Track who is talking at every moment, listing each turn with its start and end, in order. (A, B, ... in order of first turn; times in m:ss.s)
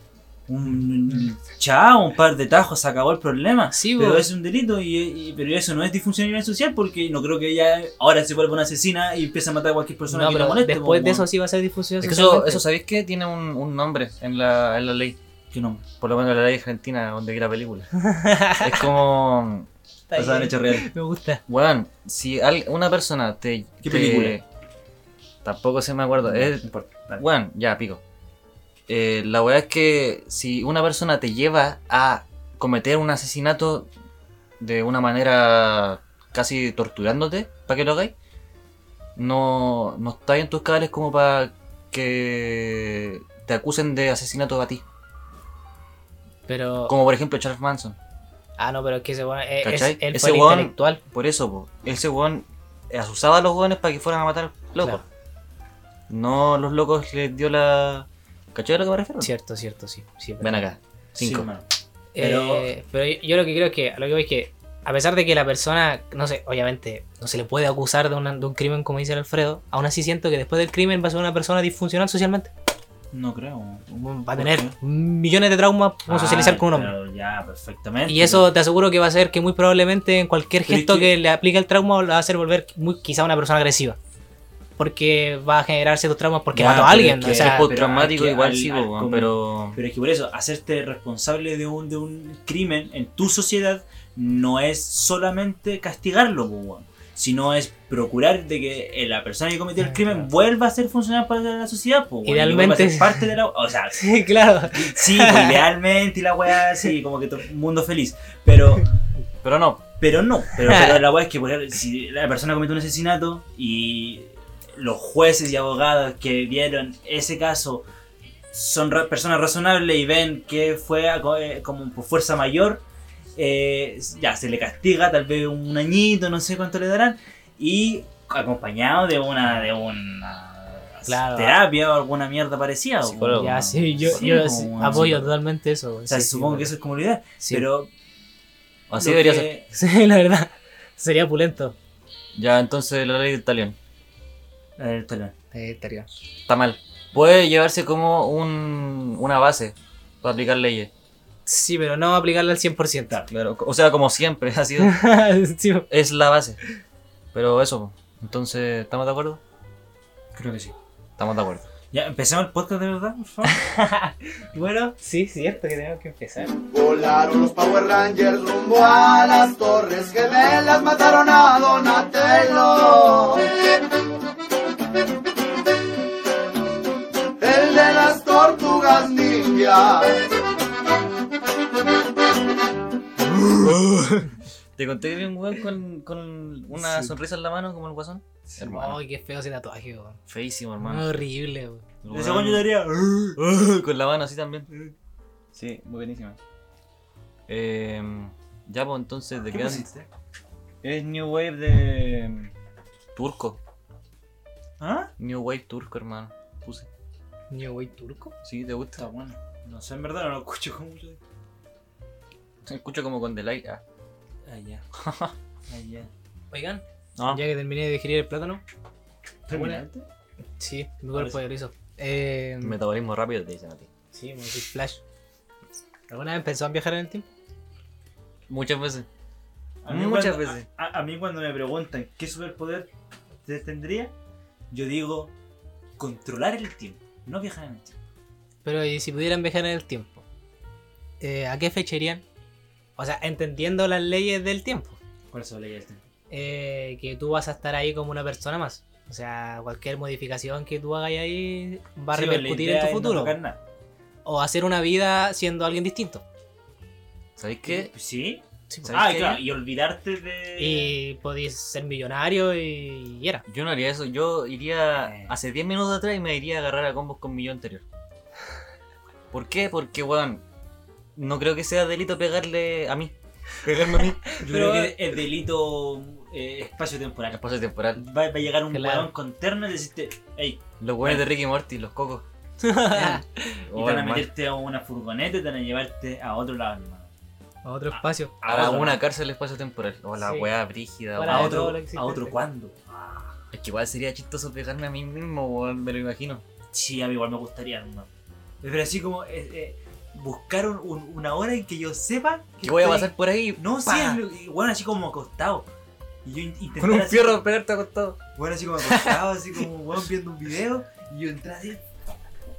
0:00.5-0:11.3 A
0:03.7-0:04.3 B
0:10.1-0:12.6 B
0:12.0-0:15.2 C
0:15.5-0:15.8 A
0:16.0-0:17.9 C
0:18.0-0:18.9 B
0:18.5-0:19.7 C
0:20.1-0:21.4 B
0:20.1-0:20.9 A
0:21.5-0:24.4 C
0:23.8-0:24.4 A
0:25.4-0:26.6 C
0:26.2-0:27.2 A
0:27.2-0:28.0 C
0:28.9-0:33.9 C
0:34.6-0:38.1 C
0:39.2-0:44.8 C
0:46.5-0:46.9 B
0:46.9-0:48.0 C
0:48.6-0:51.0 B
0:49.6-0:55.0 C
0:56.1-0:59.3 C
0:59.2-1:00.6 B
1:00.4-1:01.5 C
1:01.2-1:01.6 A
1:02.1-1:12.5 B
1:02.2-1:02.7 A
1:13.1-1:14.7 A
1:13.9-1:16.9 B
1:16.1-1:18.5 A
1:18.1-1:24.0 B
1:20.6-1:21.1 A
1:24.8-1:27.7 B
1:26.5-1:44.1 A
1:26.7-1:29.8 C
1:39.8-1:40.2 B
1:42.2-1:43.3 B
1:44.0-1:45.6 B
1:44.7-1:48.8 A
1:49.4-1:49.8 C
1:50.0-1:57.8 A
1:50.6-1:51.0 B
1:58.5-2:02.8 A
2:03.4-2:15.3 A
2:11.1-2:11.6 B
2:13.0-2:15.2 C
2:13.3-2:16.7 B
2:16.1-2:17.9 A
2:17.4-2:17.7 B
2:18.9-2:19.5 C
2:18.9-2:19.7 A
2:19.7-2:21.7 B
2:22.4-2:23.8 C
2:24.8-2:25.3 A
2:25.5-2:26.1 B
2:26.5-2:30.9 C
2:31.4-2:33.2 B
2:33.3-2:34.9 C
2:34.8-2:35.9 B
2:35.9-2:36.6 C
2:37.3-2:39.4 C
2:40.3-2:40.7 A
2:41.2-2:41.7 C
2:41.9-2:43.6 A
2:43.4-2:46.6 B
2:46.7-2:53.5 D
2:57.4-3:00.2 D
3:03.3-3:03.6 A
3:03.5-3:09.0 C
3:06.7-3:07.1 A
3:08.6-3:10.2 B
3:10.3-3:11.2 C
3:10.8-3:11.8 B
3:12.0-3:12.7 C
3:12.1-3:13.4 A
3:13.4-3:14.7 C
3:14.7-3:14.9 A
3:15.5-3:16.4 C
3:17.5-3:19.9 C
3:19.5-3:20.1 A
3:20.8-3:22.5 C
3:23.1-3:23.6 C
3:24.8-3:25.1 A
3:25.2-3:26.9 C
3:27.5-3:28.3 B
3:28.4-3:29.0 C
3:29.0-3:31.2 A
3:32.6-3:33.8 C
3:34.4-3:34.8 A
3:34.9-3:35.3 C
3:35.7-3:36.1 A
3:36.5-3:38.6 B
3:37.2-3:37.4 C
3:39.5-3:40.1 A
3:39.5-3:39.8 B
3:40.6-3:42.8 B
3:41.1-3:41.4 A
3:42.6-3:43.9 C
3:44.1-3:45.0 B
3:46.1-3:47.2 B
3:48.5-3:49.1 C
3:49.8-3:52.9 A
3:49.9-3:50.7 C
3:53.4-3:54.1 A
3:54.7-3:55.3 A
3:56.0-3:58.0 A
3:58.6-4:00.2 B
4:01.2-4:02.2 B
4:03.0-4:05.0 B
4:05.3-4:06.0 A
4:06.3-4:13.4 B
4:12.1-4:13.6 A
4:14.2-4:16.2 B
4:17.4-4:17.9 C
4:17.6-4:20.9 A
4:18.7-4:19.0 B
4:18.8-4:19.4 C
4:20.6-4:23.4 B
4:23.5-4:27.8 C
4:24.9-4:25.4 A
4:29.3-4:30.4 C
4:31.2-4:34.4 C
4:34.2-4:34.9 B
4:34.4-4:37.4 A
4:37.3-4:38.0 C
4:37.9-4:41.2 A
4:38.7-4:39.1 B
4:40.8-4:42.2 C
4:42.6-4:43.6 B
4:42.9-4:44.3 C
4:43.7-4:47.1 A
4:47.6-4:48.3 B
4:47.9-4:49.0 A
4:48.4-4:51.7 C
4:50.2-4:50.5 B
4:51.2-4:52.4 B
4:51.3-4:53.3 A
4:53.5-4:56.4 C
4:56.7-4:58.1 A
4:58.6-5:05.7 A
5:02.6-5:04.2 C
5:06.2-5:07.4 A
5:06.8-5:08.2 C
5:08.3-5:11.8 A
5:08.9-5:09.1 B